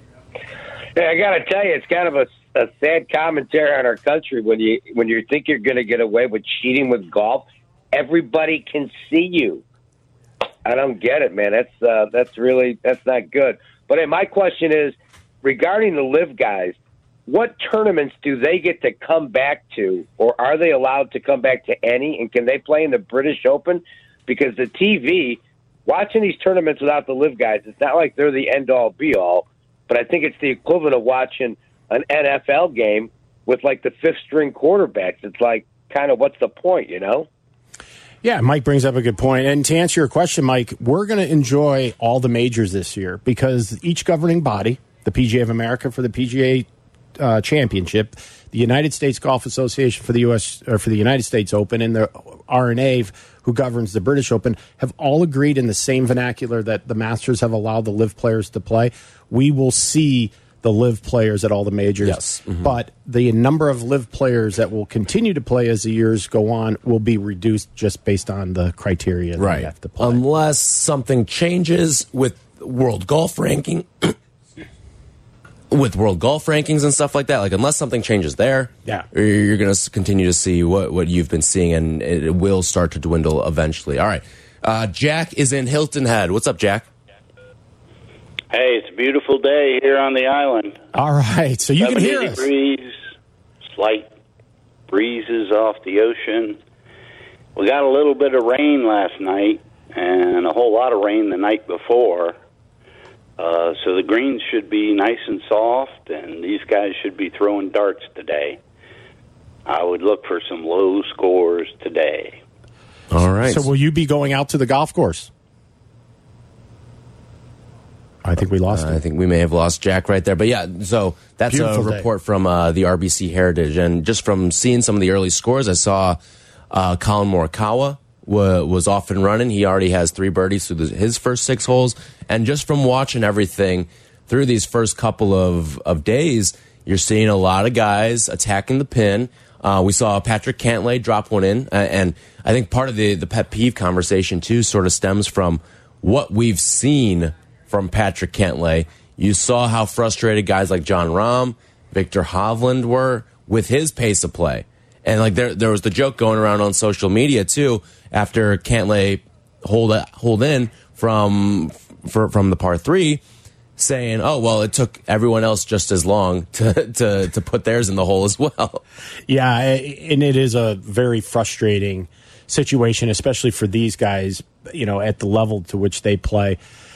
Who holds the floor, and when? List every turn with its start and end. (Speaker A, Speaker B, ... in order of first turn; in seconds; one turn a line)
Speaker A: 1.0-9.6
Speaker A: 10.7-16.8
Speaker A: 17.3-37.3
Speaker B: 38.2-46.7
Speaker B: 47.2-70.2
Speaker C: 62.0-62.7
Speaker C: 69.4-74.2
Speaker C: 75.7-86.9
Speaker D: 88.5-90.8
Speaker B: 91.0-92.5
Speaker D: 91.8-93.0
Speaker D: 93.7-94.1
Speaker D: 94.9-96.6
Speaker D: 97.6-102.3
Speaker D: 103.4-108.6
Speaker D: 109.7-112.4
Speaker C: 113.1-113.7
Speaker B: 113.4-115.3
Speaker B: 118.2-119.0
Speaker C: 118.7-126.2
Speaker B: 121.5-122.1
Speaker C: 126.7-163.2
Speaker C: 163.8-168.8
Speaker B: 169.3-176.6